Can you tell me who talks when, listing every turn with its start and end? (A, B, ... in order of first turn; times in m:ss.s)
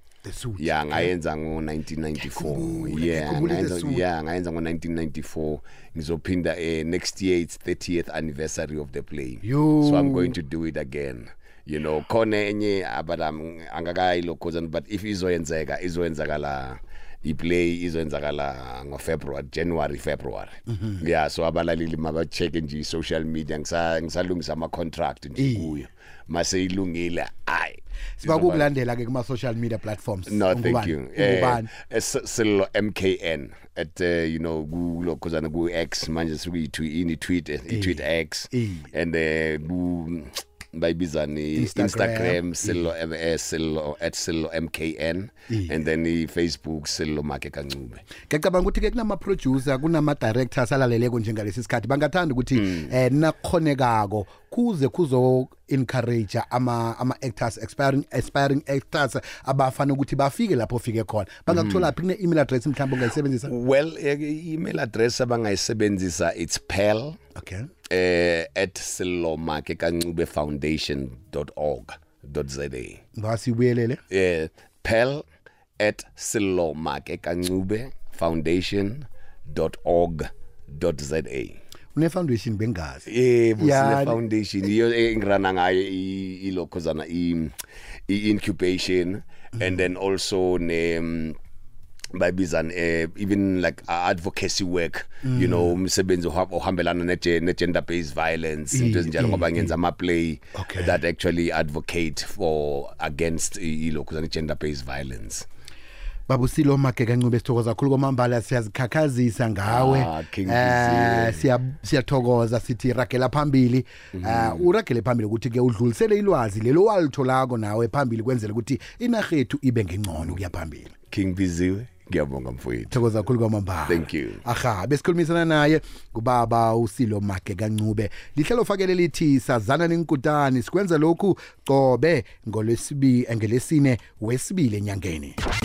0:00.2-0:01.1 A
0:00.6-0:28.7 B
0:02.2-0:04.0 A
0:09.4-0:10.4 A
0:20.7-0:21.0 A
0:25.4-0:25.8 A
0:28.2-0:31.7 A
0:30.3-0:48.0 B
0:37.7-0:38.9 A
0:41.6-0:42.9 A
0:48.3-1:03.5 A
0:52.6-0:52.9 B
1:01.5-1:01.9 B
1:03.5-1:07.2 B
1:07.3-1:07.7 A
1:07.9-1:13.0 B
1:13.2-1:14.0 A
1:14.1-1:15.2 B
1:15.8-1:21.6 B
1:21.9-1:23.1 A
1:23.1-1:27.6 B
1:23.6-1:24.2 A
1:28.1-1:31.4 B
1:32.1-1:45.4 B
1:35.2-1:35.7 A
1:38.7-1:39.7 A
1:40.5-1:41.0 A
1:46.3-2:00.9 A
1:49.6-1:51.4 B
1:54.1-1:54.7 B
2:01.1-2:03.0 B
2:02.9-2:15.4 A
2:03.9-2:04.4 B